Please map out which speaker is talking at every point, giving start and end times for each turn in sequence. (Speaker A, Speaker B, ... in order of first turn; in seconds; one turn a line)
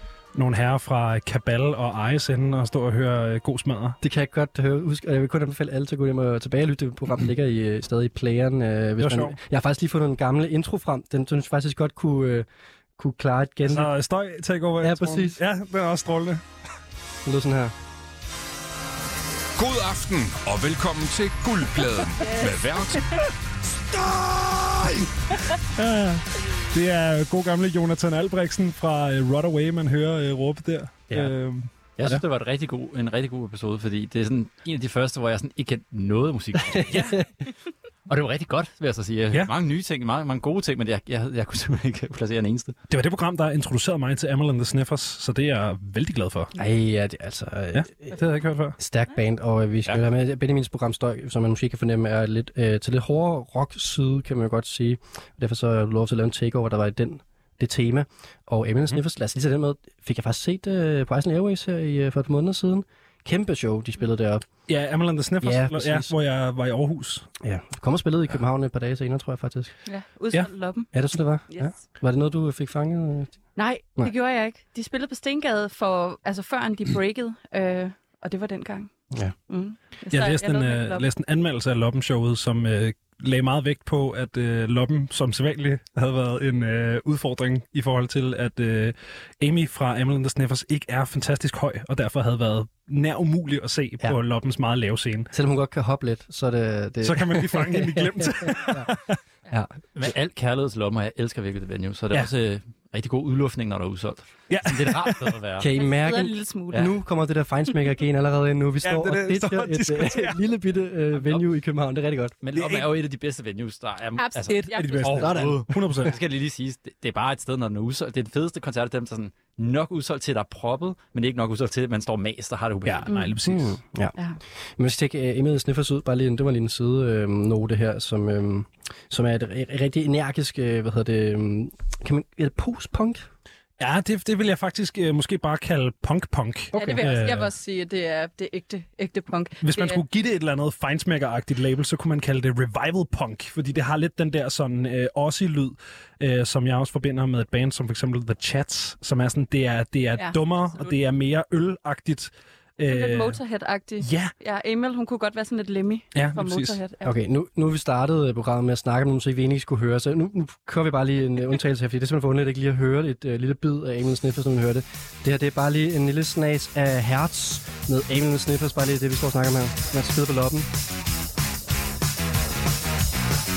Speaker A: 0.3-4.0
Speaker B: 4.0-13.9
Speaker A: 9.0-9.4
Speaker A: 13.7-16.4
Speaker B: 14.8-15.4
Speaker B: 17.2-17.7
Speaker C: 19.6-23.2
Speaker C: 23.8-25.1
Speaker A: 25.8-32.2
Speaker D: 31.9-37.2
Speaker B: 36.6-37.2
Speaker D: 38.1-42.8
Speaker A: 42.9-46.5
Speaker B: 46.6-48.2
Speaker A: 47.7-48.8
Speaker B: 48.8-64.5
Speaker A: 64.7-67.3
Speaker B: 65.4-66.1
Speaker B: 67.4-69.7
Speaker E: 69.9-70.9
Speaker B: 70.9-73.4
Speaker E: 71.5-71.8
Speaker E: 73.6-78.9
Speaker E: 79.5-81.1
Speaker A: 80.1-95.3
Speaker B: 95.3-98.9
Speaker A: 97.0-99.2
Speaker B: 99.5-100.1
Speaker D: 99.9-105.7
Speaker A: 104.5-105.4
Speaker B: 105.6-112.4
Speaker E: 105.8-106.9
Speaker A: 108.8-110.4
Speaker D: 111.2-111.4
Speaker D: 112.4-123.1
Speaker A: 112.5-112.9
Speaker E: 114.2-115.2
Speaker A: 114.5-116.1
Speaker B: 115.1-116.1
Speaker A: 122.8-123.8
Speaker E: 123.1-123.3
Speaker B: 123.4-124.1
Speaker B: 124.8-133.2
Speaker A: 133.8-137.5
Speaker B: 136.7-137.1
Speaker E: 136.7-140.1
Speaker A: 139.6-153.4
Speaker E: 150.2-151.0
Speaker E: 152.9-157.1
Speaker A: 154.0-154.3
Speaker A: 156.1-156.8
Speaker B: 157.0-170.7